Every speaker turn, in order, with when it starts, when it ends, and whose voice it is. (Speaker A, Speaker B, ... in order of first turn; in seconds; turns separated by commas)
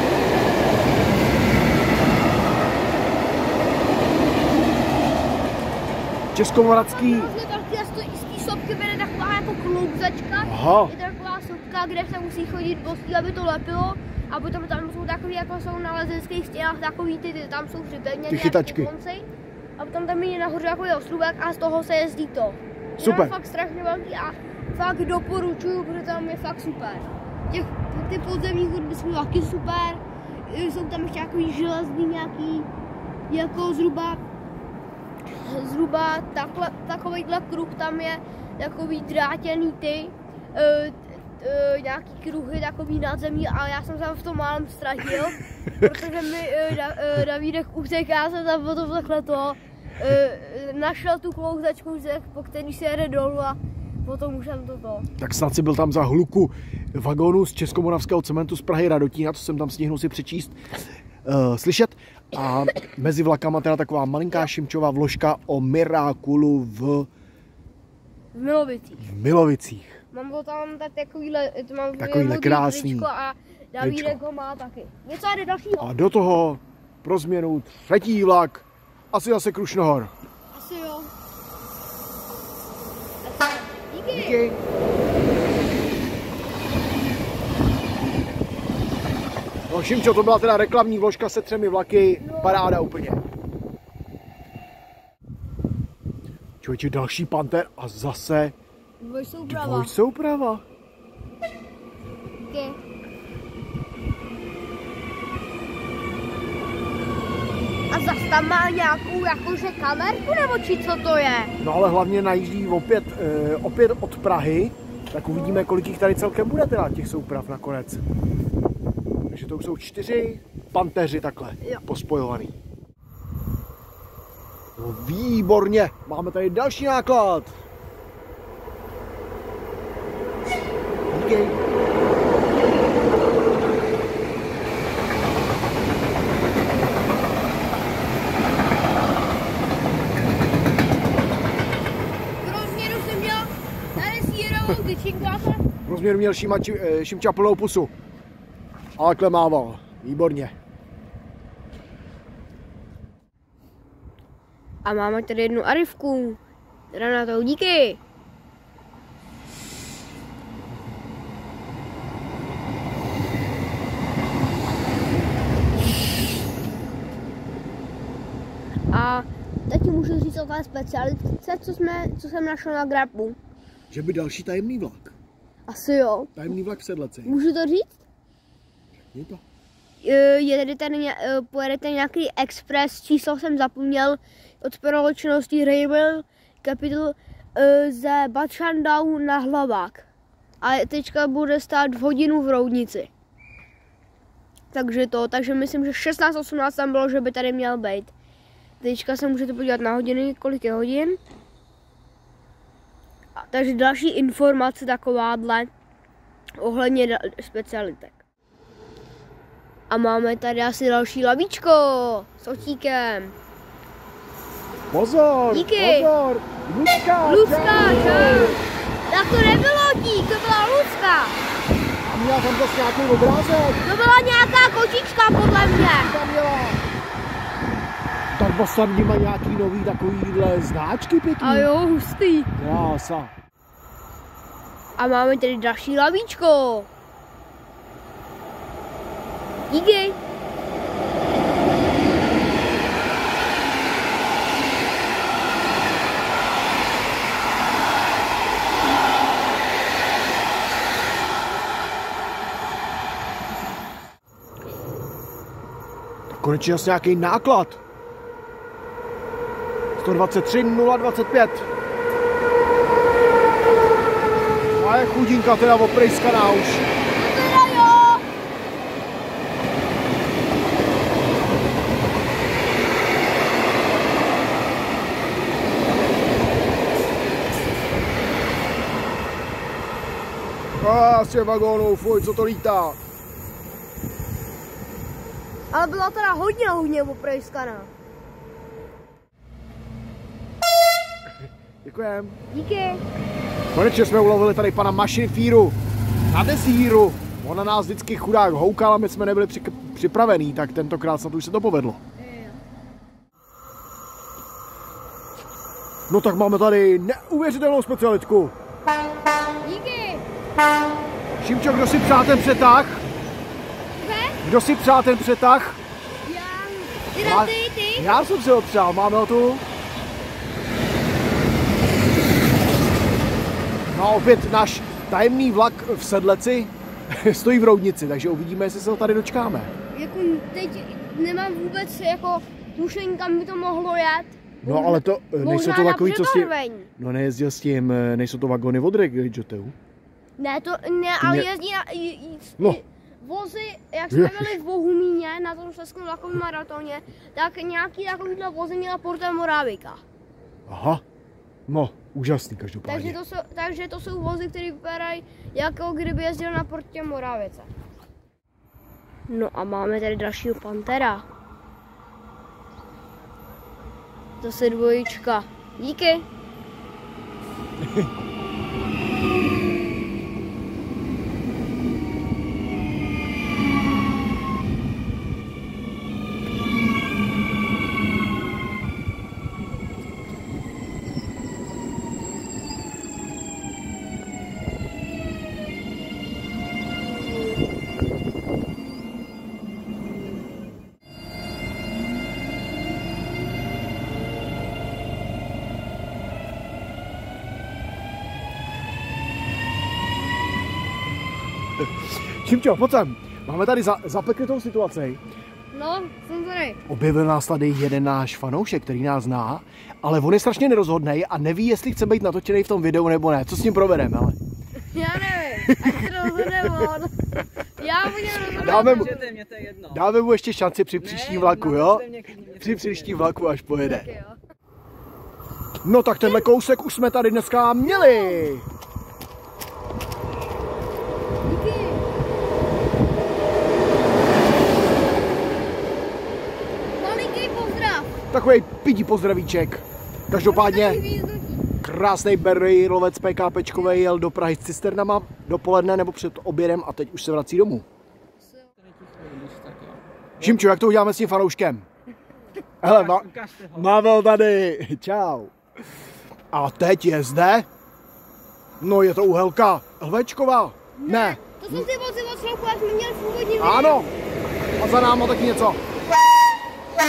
Speaker A: 6.3-7.3, Speaker B: 6.9-19.2, Speaker A: 10.5-10.9, Speaker A: 18.3-18.9, Speaker B: 19.8-32.7, Speaker A: 23.0-23.3, Speaker B: 33.3-34.2, Speaker B: 35.3-55.1, Speaker A: 55.2-60.6, Speaker A: 61.2-67.1, Speaker B: 68.3-69.1, Speaker A: 69.0-70.0, Speaker B: 70.1-75.9, Speaker A: 72.0-73.1, Speaker A: 73.8-74.2, Speaker A: 75.8-80.1, Speaker B: 80.5-81.1, Speaker B: 83.2-84.4, Speaker A: 84.1-84.6, Speaker A: 89.7-93.2, Speaker B: 92.2-92.7, Speaker A: 96.6-98.5, Speaker B: 99.0-99.9, Speaker A: 99.5-100.6, Speaker B: 102.5-102.8, Speaker B: 107.9-111.5, Speaker A: 111.6-118.0, Speaker B: 115.3-115.6, Speaker A: 119.3-122.6, Speaker A: 124.8-127.5, Speaker A: 131.1-131.6, Speaker B: 142.4-145.7, Speaker A: 145.9-147.9, Speaker A: 149.0-150.6, Speaker B: 154.8-156.4, Speaker B: 156.9-158.0, Speaker B: 168.9-173.4, Speaker A: 173.9-175.2, Speaker B: 175.7-176.4, Speaker A: 176.4-177.4, Speaker B: 177.2-178.0, Speaker A: 179.1-179.4, Speaker B: 180.0-190.1, Speaker B: 190.6-193.1, Speaker B: 194.7-198.1, Speaker B: 198.8-201.2, Speaker B: 203.4-205.7, Speaker B: 206.6-208.2, Speaker B: 209.9-213.3, Speaker A: 214.9-218.6, Speaker B: 215.5-216.1, Speaker B: 217.2-221.4, Speaker A: 222.1-223.8, Speaker B: 223.8-226.2, Speaker A: 226.0-226.8, Speaker A: 228.3-231.7, Speaker B: 231.4-232.6, Speaker A: 232.6-233.3, Speaker B: 235.0-236.9, Speaker B: 239.7-240.2, Speaker A: 256.3-257.8, Speaker A: 260.0-261.7, Speaker A: 264.8-266.9, Speaker B: 267.3-268.3, Speaker A: 280.8-283.0, Speaker B: 285.7-287.9, Speaker A: 291.8-292.4, Speaker B: 292.5-293.0, Speaker A: 293.7-295.8, Speaker A: 296.3-302.0, Speaker B: 302.2-302.6, Speaker A: 306.1-308.6, Speaker B: 309.6-310.3, Speaker A: 311.4-313.0, Speaker B: 314.0-314.4, Speaker A: 314.4-315.8, Speaker B: 316.2-318.2, Speaker A: 317.2-319.6, Speaker A: 323.9-329.7, Speaker B: 329.9-336.9, Speaker A: 334.6-339.8, Speaker B: 340.4-350.0, Speaker A: 341.2-341.5, Speaker A: 344.1-344.6, Speaker A: 350.7-351.0, Speaker A: 351.7-353.2, Speaker B: 352.9-357.7, Speaker B: 359.3-361.2, Speaker B: 364.4-366.3, Speaker A: 367.8-368.1, Speaker A: 401.8-405.2, Speaker B: 405.7-406.8, Speaker A: 406.9-414.4, Speaker B: 414.8-417.1, Speaker A: 415.7-416.9, Speaker B: 417.8-419.3, Speaker C: 418.6-420.1, Speaker A: 418.6-419.2, Speaker A: 419.9-424.1, Speaker C: 421.0-423.3, Speaker B: 423.8-424.4, Speaker A: 425.8-428.7, Speaker B: 427.8-428.5, Speaker B: 431.4-432.0, Speaker B: 437.0-438.1, Speaker A: 438.3-441.0, Speaker B: 440.4-441.6, Speaker A: 441.8-447.9, Speaker C: 448.8-450.7, Speaker A: 450.4-451.9, Speaker C: 452.8-454.0, Speaker A: 452.8-455.5, Speaker A: 456.5-457.7, Speaker A: 458.8-461.9, Speaker B: 461.0-464.1, Speaker A: 463.6-464.1, Speaker A: 464.8-465.8